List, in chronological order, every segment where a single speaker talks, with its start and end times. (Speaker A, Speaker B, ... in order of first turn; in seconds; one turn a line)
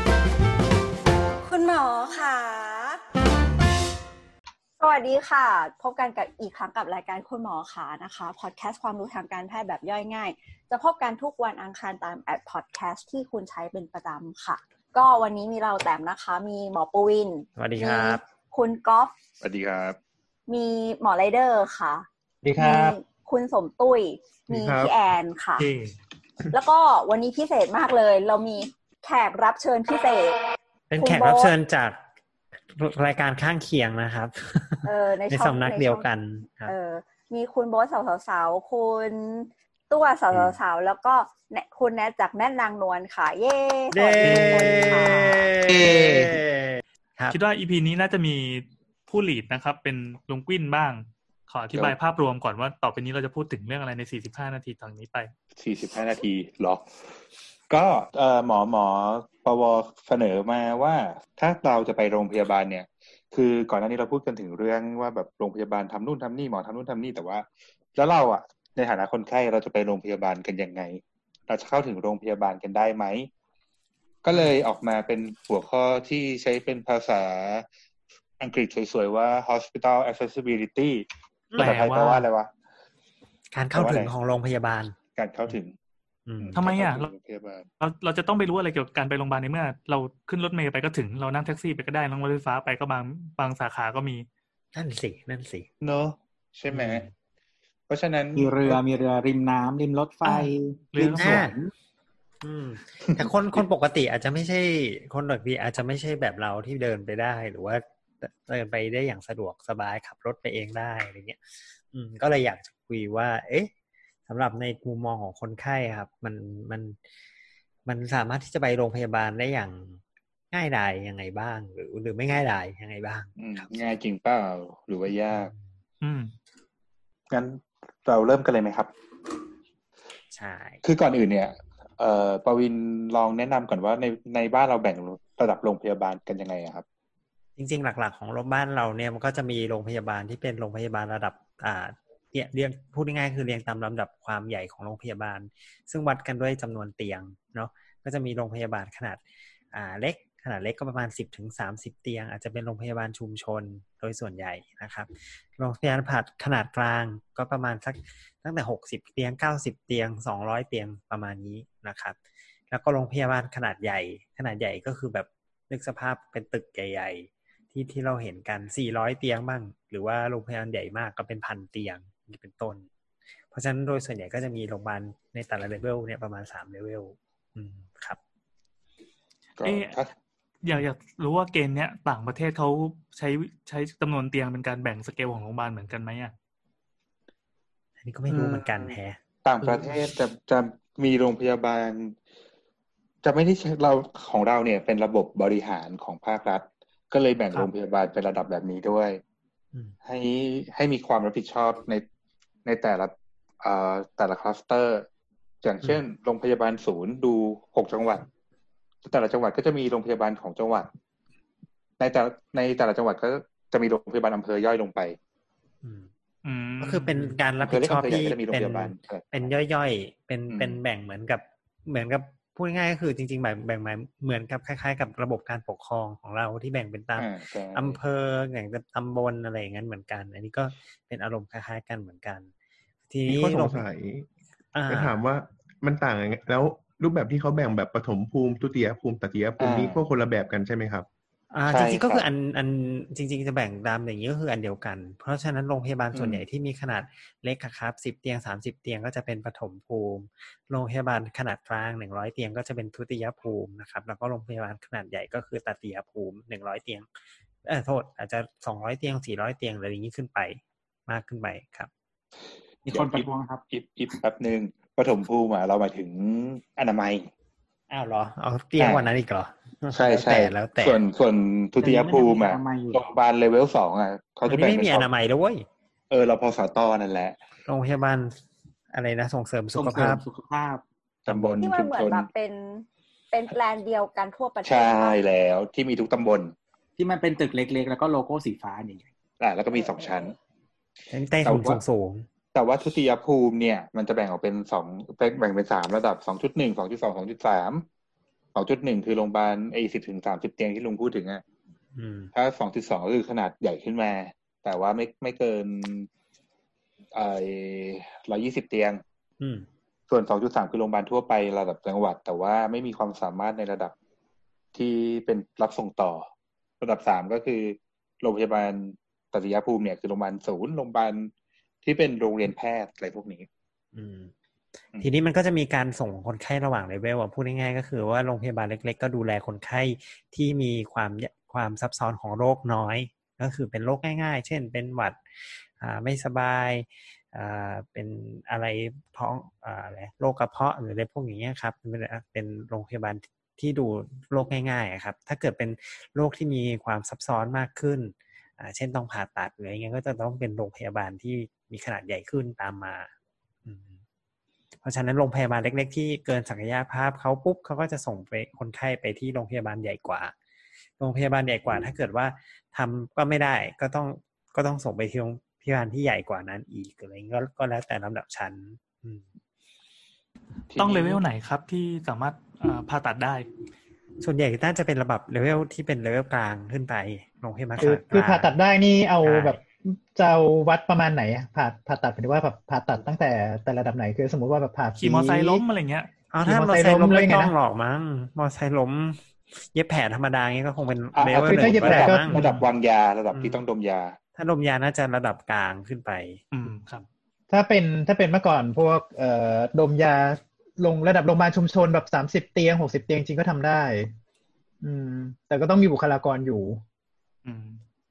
Speaker A: 1.4-3.0
Speaker A: 4.8-19.1
Speaker B: 17.6-18.2
Speaker C: 19.4-20.0
Speaker A: 20.5-25.7
Speaker D: 22.4-23.0
Speaker E: 24.5-24.9
Speaker F: 25.6-25.9
Speaker A: 26.5-31.5
Speaker B: 30.9-32.0
Speaker B: 32.8-36.7
Speaker A: 34.8-36.1
Speaker A: 36.6-45.5
Speaker B: 43.9-47.4
Speaker F: 44.2-46.3
Speaker F: 47.3-55.3
Speaker C: 55.6-56.9
Speaker C: 57.7-73.3
Speaker C: 74.2-77.7
Speaker C: 78.4-81.1
Speaker B: 81.5-81.8
Speaker F: 81.6-82.3
Speaker C: 81.6-82.5
Speaker B: 83.5-85.0
Speaker C: 83.7-84.1
Speaker C: 85.2-85.7
Speaker B: 86.3-86.5
Speaker C: 86.4-87.7
Speaker F: 86.5-87.1
Speaker F: 87.8-94.3
Speaker B: 94.7-95.7
Speaker C: 95.8-97.0
Speaker B: 96.7-97.1
Speaker C: 97.9-98.8
Speaker G: 98.4-101.7
Speaker F: 100.9-101.5
Speaker B: 101.2-101.5
Speaker B: 102.4-111.4
Speaker C: 103.1-103.6
Speaker B: 111.9-113.7
Speaker B: 114.3-117.0
Speaker B: 117.9-120.0
Speaker B: 120.5-123.4
Speaker C: 123.4-125.5
Speaker F: 126.0-126.3
Speaker C: 127.3-128.9
Speaker B: 130.3-130.8
Speaker C: 130.8-136.8
Speaker B: 137.6-149.2
Speaker B: 149.7-162.2
Speaker B: 162.7-172.9
Speaker B: 173.5-178.2
Speaker C: 179.6-180.1
Speaker F: 179.6-180.0
Speaker F: 180.6-186.3
Speaker B: 188.0-190.0
Speaker C: 188.3-192.2
Speaker C: 193.2-199.2
Speaker C: 200.0-202.0
Speaker C: 202.7-205.1
Speaker C: 205.6-208.3
Speaker C: 209.1-210.9
Speaker C: 212.0-215.2
Speaker B: 215.8-216.1
Speaker F: 216.4-217.4
Speaker B: 216.8-232.5
Speaker C: 217.6-219.4
Speaker C: 220.5-220.8
Speaker C: 227.2-228.0
Speaker B: 233.1-233.8
Speaker E: 233.3-234.3
Speaker B: 234.7-235.2
Speaker E: 234.9-241.1
Speaker C: 239.6-240.0
Speaker B: 241.5-257.1
Speaker C: 241.7-242.2
Speaker C: 246.1-246.4
Speaker B: 257.7-261.9
Speaker G: 262.9-263.6
Speaker C: 262.9-267.3
Speaker B: 267.9-271.0
Speaker C: 268.8-269.1
Speaker C: 269.9-275.1
Speaker G: 271.8-273.0
Speaker B: 274.5-275.7
Speaker C: 276.1-277.4
Speaker B: 277.7-278.4
Speaker B: 278.9-280.2
Speaker G: 279.7-280.8
Speaker C: 281.3-282.3
Speaker A: 281.6-285.2
Speaker C: 284.6-286.5
Speaker G: 287.0-289.1
Speaker C: 289.4-290.4
Speaker B: 291.1-292.3
Speaker C: 291.4-291.8
Speaker C: 292.5-297.9
Speaker C: 298.6-301.4
Speaker B: 301.9-302.3
Speaker C: 302.4-306.1
Speaker C: 307.1-309.0
Speaker B: 309.4-309.7
Speaker C: 310.1-313.9
Speaker C: 314.8-316.3
Speaker C: 316.8-321.3
Speaker C: 321.8-323.5
Speaker B: 323.9-324.3
Speaker B: 325.0-335.2
Speaker B: 335.8-353.1
Speaker B: 353.7-353.9
Speaker B: 354.8-360.3
Speaker B: 361.0-369.2
Speaker C: 370.7-371.2
Speaker F: 370.8-373.5
Speaker B: 374.2-378.5
Speaker D: 377.8-385.6
Speaker B: 379.2-379.6
Speaker F: 385.0-386.1
Speaker B: 386.3-389.2
Speaker D: 386.4-387.5
Speaker B: 389.7-392.5
Speaker C: 391.1-394.2
Speaker D: 391.3-392.6
Speaker B: 393.3-393.6
Speaker B: 394.4-396.4
Speaker F: 396.5-397.1
Speaker D: 397.5-404.1
Speaker D: 404.8-406.8
Speaker F: 407.4-407.8